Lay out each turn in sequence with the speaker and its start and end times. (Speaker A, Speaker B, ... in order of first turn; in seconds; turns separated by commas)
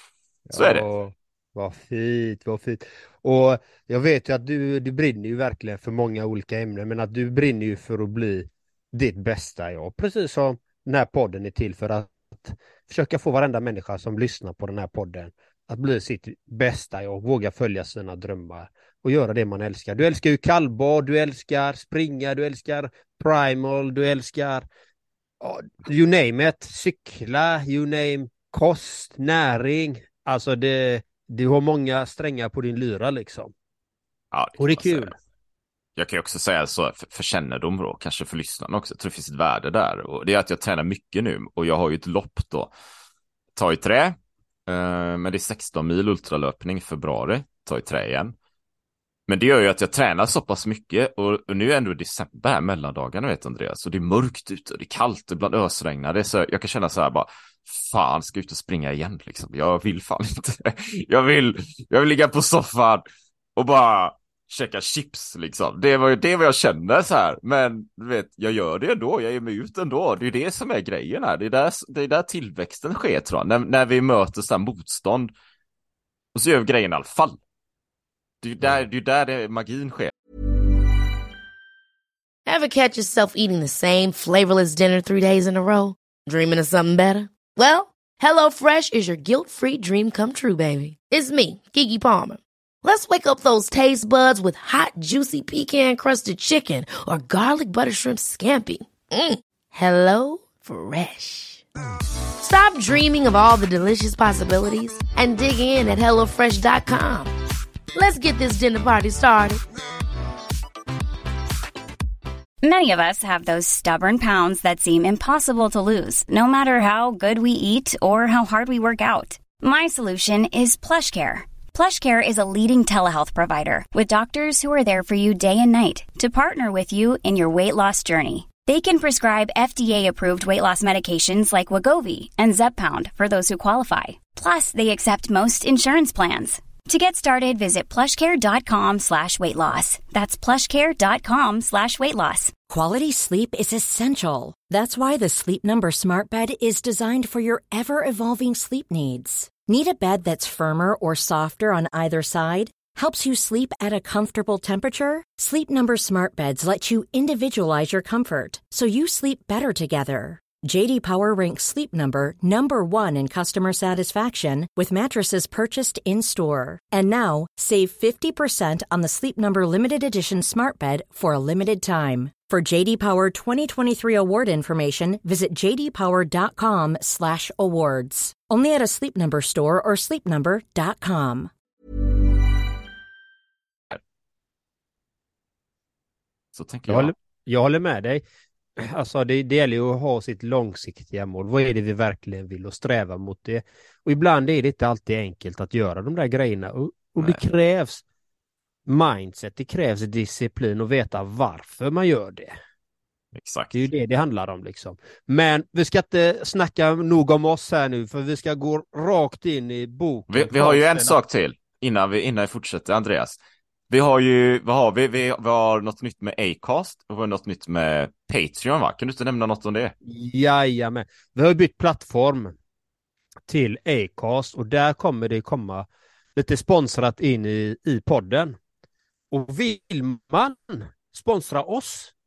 Speaker A: 0.5-24.6, Speaker B: 0.5-0.9, Speaker A: 25.4-33.5, Speaker B: 34.3-35.1, Speaker A: 34.6-35.1, Speaker B: 36.0-42.7, Speaker B: 43.5-48.3, Speaker B: 49.3-63.0, Speaker B: 63.5-75.3, Speaker B: 76.3-77.4, Speaker B: 78.4-80.1, Speaker C: 82.5-101.6, Speaker C: 102.4-107.3, Speaker C: 107.9-109.6, Speaker D: 112.6-142.5, Speaker E: 142.7-181.5, Speaker B: 186.5-187.1, Speaker A: 186.9-188.2, Speaker A: 188.8-198.0, Speaker A: 198.8-202.5, Speaker B: 203.3-203.9, Speaker A: 203.7-211.2, Speaker B: 210.3-213.4, Speaker B: 213.9-219.9, Speaker A: 220.0-222.6, Speaker A: 223.5-228.6, Speaker A: 229.3-232.1